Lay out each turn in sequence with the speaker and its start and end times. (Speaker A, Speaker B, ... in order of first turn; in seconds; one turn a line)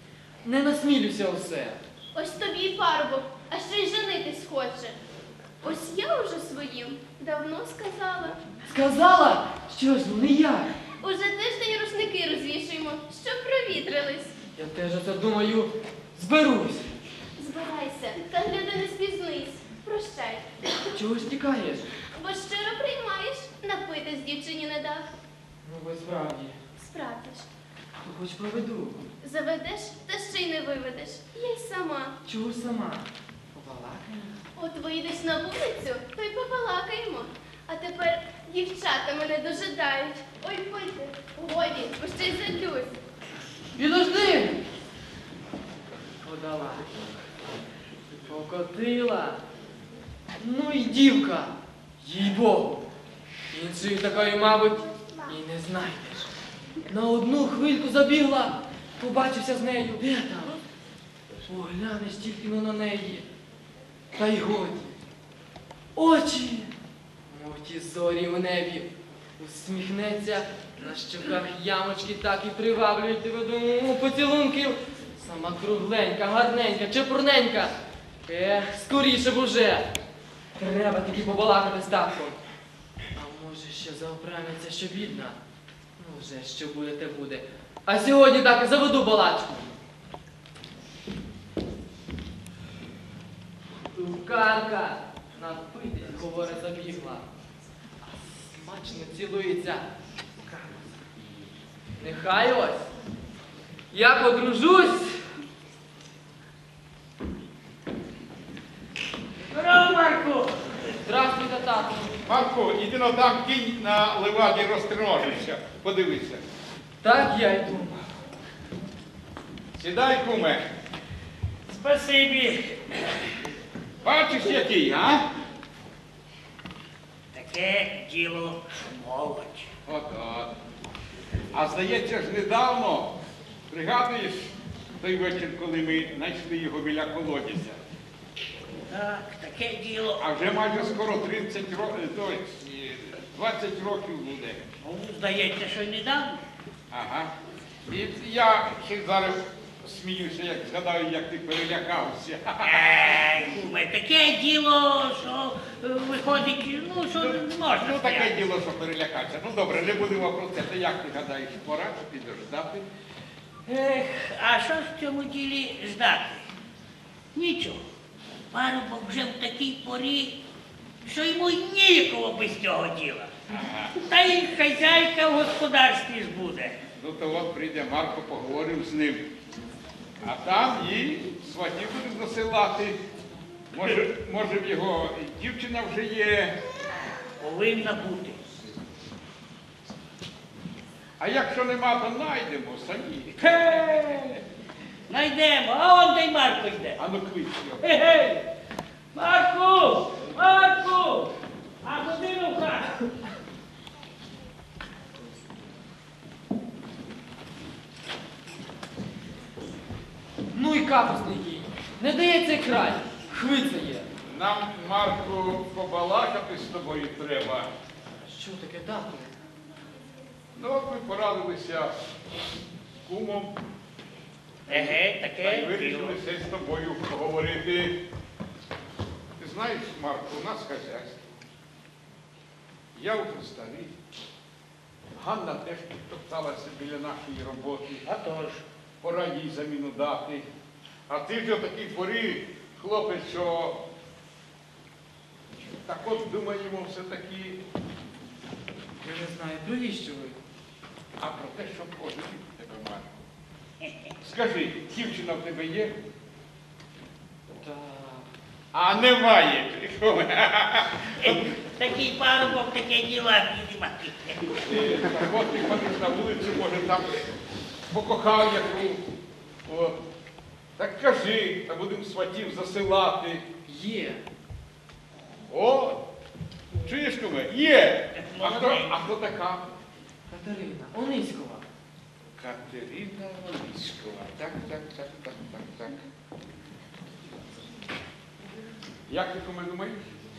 Speaker A: 0.4-1.8
Speaker B: 2.1-5.0
Speaker B: 5.6-8.4
Speaker A: 8.6-10.7
Speaker B: 11.0-14.3
Speaker A: 14.6-16.9
Speaker B: 17.4-20.5
Speaker A: 20.9-21.9
Speaker B: 22.1-25.1
Speaker A: 25.6-26.6
Speaker B: 26.8-27.5
Speaker A: 28.0-29.0
Speaker B: 29.2-32.2
Speaker A: 32.2-34.4
Speaker B: 34.5-43.0
Speaker A: 43.7-44.6
Speaker A: 46.2-47.1
Speaker A: 48.2-49.4
Speaker A: 50.4-52.9
Speaker A: 53.5-56.3
Speaker A: 56.9-60.6
Speaker A: 61.4-63.2
Speaker A: 64.1-65.0
Speaker A: 65.9-66.7
Speaker A: 67.3-79.9
Speaker A: 80.6-82.4
Speaker A: 83.2-85.4
Speaker A: 86.0-89.8
Speaker A: 93.9-97.3
Speaker A: 98.0-101.0
Speaker A: 102.0-102.9
Speaker A: 103.9-105.2
Speaker C: 109.5-110.8
Speaker A: 111.0-112.2
Speaker D: 112.2-116.4
Speaker A: 117.0-118.0
Speaker D: 119.8-120.7
Speaker C: 121.7-123.3
Speaker D: 124.0-125.2
Speaker C: 127.3-129.7
Speaker D: 129.8-130.5
Speaker D: 131.5-133.2
Speaker D: 133.7-137.8
Speaker C: 138.9-140.2
Speaker D: 140.2-144.7
Speaker C: 144.8-146.4
Speaker D: 146.9-147.3
Speaker D: 147.9-152.9
Speaker C: 152.6-158.3
Speaker D: 157.2-162.9
Speaker C: 163.7-166.4
Speaker C: 167.3-167.8
Speaker C: 168.5-170.4
Speaker C: 171.0-173.3
Speaker D: 173.5-173.9
Speaker C: 173.9-176.8
Speaker D: 176.9-179.3
Speaker D: 180.2-183.0
Speaker D: 183.7-186.6
Speaker C: 187.4-188.4
Speaker D: 191.2-193.7
Speaker C: 193.4-194.4
Speaker C: 195.1-197.0
Speaker D: 197.0-198.2
Speaker C: 197.8-198.4
Speaker C: 199.1-201.3
Speaker C: 201.8-203.0
Speaker A: 210.5-214.1
Speaker D: 214.2-217.7
Speaker A: 218.2-219.3
Speaker D: 220.6-221.9
Speaker D: 223.0-223.6
Speaker D: 224.7-228.0
Speaker C: 224.7-226.2
Speaker D: 229.4-231.3
Speaker D: 232.9-233.9
Speaker D: 235.2-238.0
Speaker C: 238.1-238.6
Speaker D: 239.0-240.4
Speaker D: 241.1-243.8
Speaker D: 245.6-247.6
Speaker A: 249.0-250.4
Speaker D: 251.2-253.1
Speaker D: 254.2-255.9
Speaker A: 257.5-258.3
Speaker D: 258.7-261.5
Speaker C: 261.2-264.6
Speaker D: 264.6-267.3
Speaker D: 267.9-269.0
Speaker D: 269.6-270.0
Speaker D: 270.8-273.5
Speaker A: 273.6-274.2
Speaker D: 275.5-276.0
Speaker D: 276.8-279.6
Speaker C: 278.1-278.9
Speaker A: 280.3-281.6
Speaker D: 282.3-286.0
Speaker D: 289.1-290.1